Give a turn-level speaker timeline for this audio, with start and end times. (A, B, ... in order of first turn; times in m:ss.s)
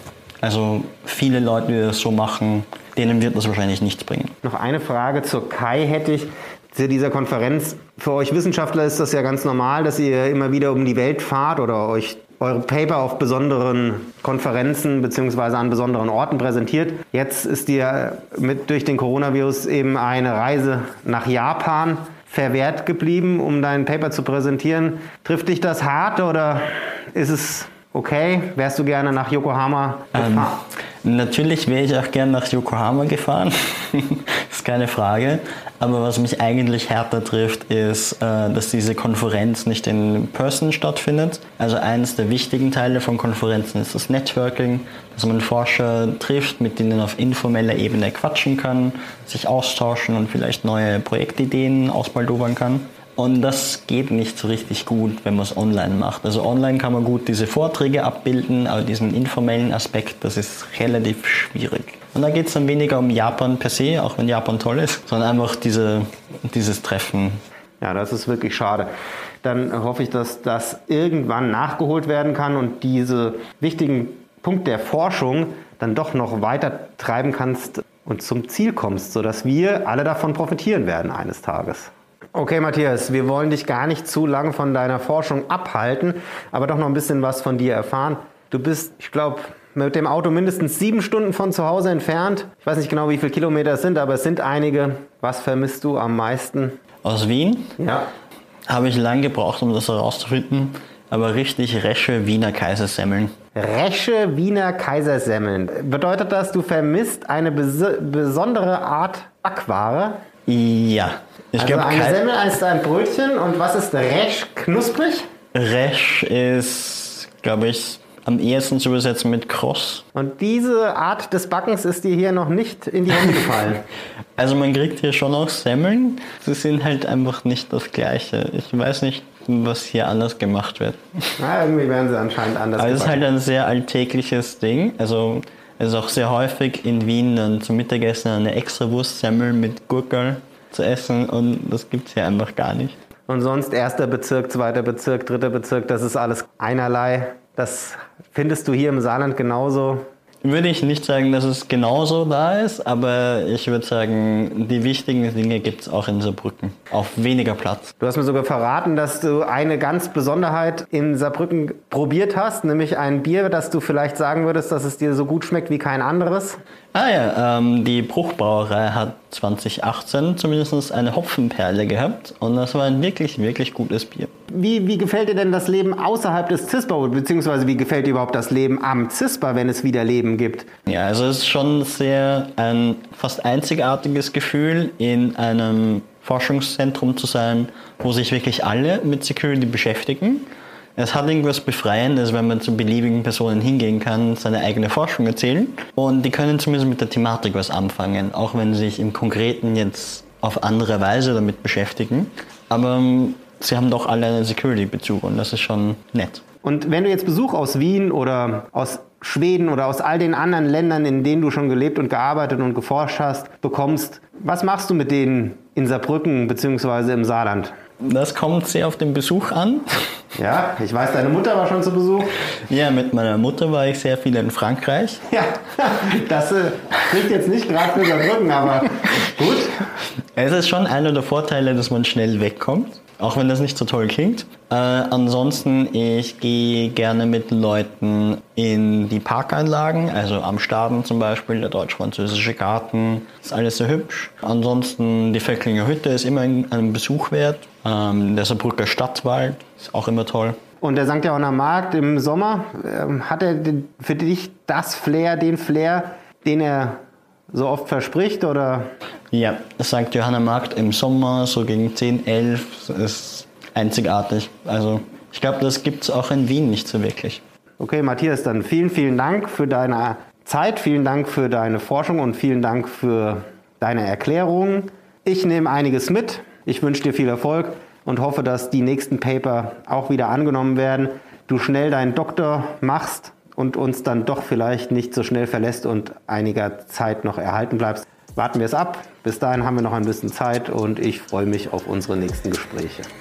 0:00.4-0:04.4 A
0:04.4-0:30.6 B
0:30.1-1:07.4 A
1:07.8-1:08.9 B
1:09.4-1:36.8 B
1:37.0-1:37.7 A
1:37.8-1:38.1 B
1:38.7-1:43.3 A
1:43.6-1:50.2 B
1:50.5-1:52.2 A
1:51.6-1:55.3 B
1:55.5-2:00.0 A
2:00.1-2:03.8 B
2:04.4-2:11.4 A
2:11.4-2:13.2 B
2:12.8-2:23.0 A
2:23.3-2:30.1 B
2:30.4-2:37.9 A
2:38.0-2:46.6 B
2:46.9-2:54.3 A
2:54.5-3:00.7 B
3:00.9-3:26.4 A
3:26.6-3:37.7 B
3:38.0-3:40.0 A
3:40.4-3:42.3 B
3:42.7-3:45.2 A
3:45.3-3:49.8 B
3:50.3-4:10.6 A
4:10.8-4:17.0 B
4:17.5-4:18.9 B
4:19.3-4:27.4 A
4:27.8-4:53.1 B